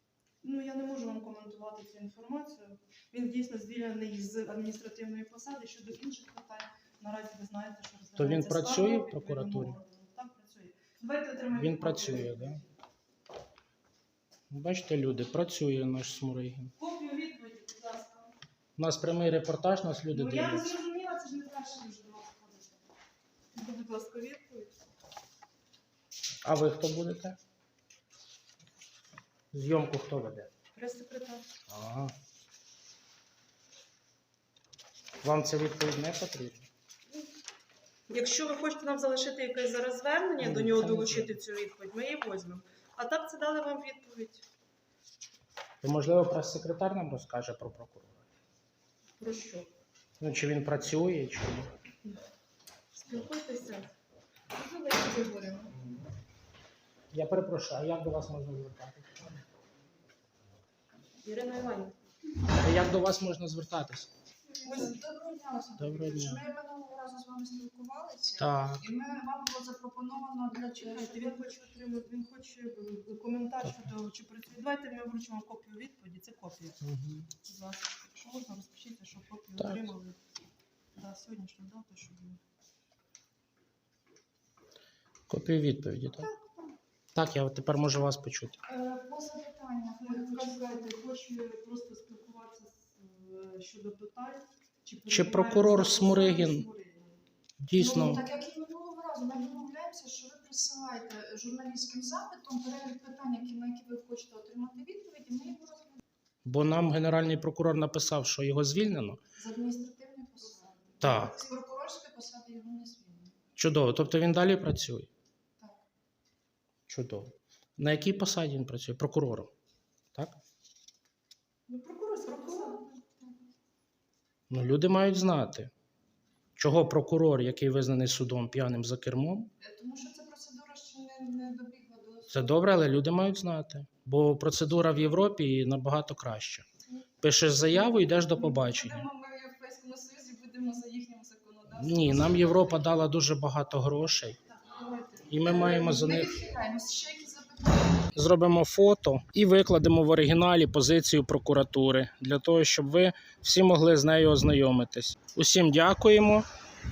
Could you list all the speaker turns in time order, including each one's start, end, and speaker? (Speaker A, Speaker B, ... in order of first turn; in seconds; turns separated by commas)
Speaker A: 0.4-12.7, Speaker B: 8.2-9.8, Speaker B: 11.5-12.6, Speaker B: 14.5-16.7, Speaker A: 16.8-18.3, Speaker B: 18.8-20.8, Speaker A: 20.1-22.7, Speaker A: 23.5-24.7, Speaker B: 26.4-27.4, Speaker B: 29.5-30.5, Speaker A: 30.7-31.5, Speaker B: 31.7-32.1, Speaker B: 35.2-36.7, Speaker A: 38.1-44.4, Speaker B: 40.4-41.4, Speaker B: 45.8-48.3, Speaker A: 49.2-49.7, Speaker B: 50.2-51.7, Speaker A: 53.0-53.9, Speaker C: 54.6-55.7, Speaker B: 57.1-59.2, Speaker A: 61.2-62.0, Speaker B: 62.5-64.1, Speaker C: 64.5-71.6, Speaker A: 64.6-65.0, Speaker B: 65.8-66.5, Speaker B: 68.4-68.9, Speaker A: 70.7-76.8, Speaker B: 76.8-77.3, Speaker A: 77.4-80.2, Speaker B: 79.6-79.9, Speaker A: 81.0-82.4, Speaker B: 85.3-86.3, Speaker A: 86.2-86.8, Speaker B: 87.1-88.6, Speaker C: 88.7-90.9, Speaker A: 90.0-97.2, Speaker B: 95.1-96.7, Speaker B: 97.6-98.2, Speaker C: 97.8-106.0, Speaker B: 106.4-109.2, Speaker C: 109.4-113.3, Speaker B: 111.0-111.4, Speaker B: 113.6-115.1, Speaker B: 116.9-119.5, Speaker A: 121.7-122.9, Speaker C: 122.2-123.3, Speaker B: 124.5-125.7, Speaker B: 126.6-129.5, Speaker C: 129.6-132.6, Speaker B: 132.3-136.7, Speaker B: 137.2-139.1, Speaker C: 137.8-142.9, Speaker B: 141.7-144.4, Speaker C: 144.7-148.1, Speaker B: 145.3-146.4, Speaker B: 148.1-156.4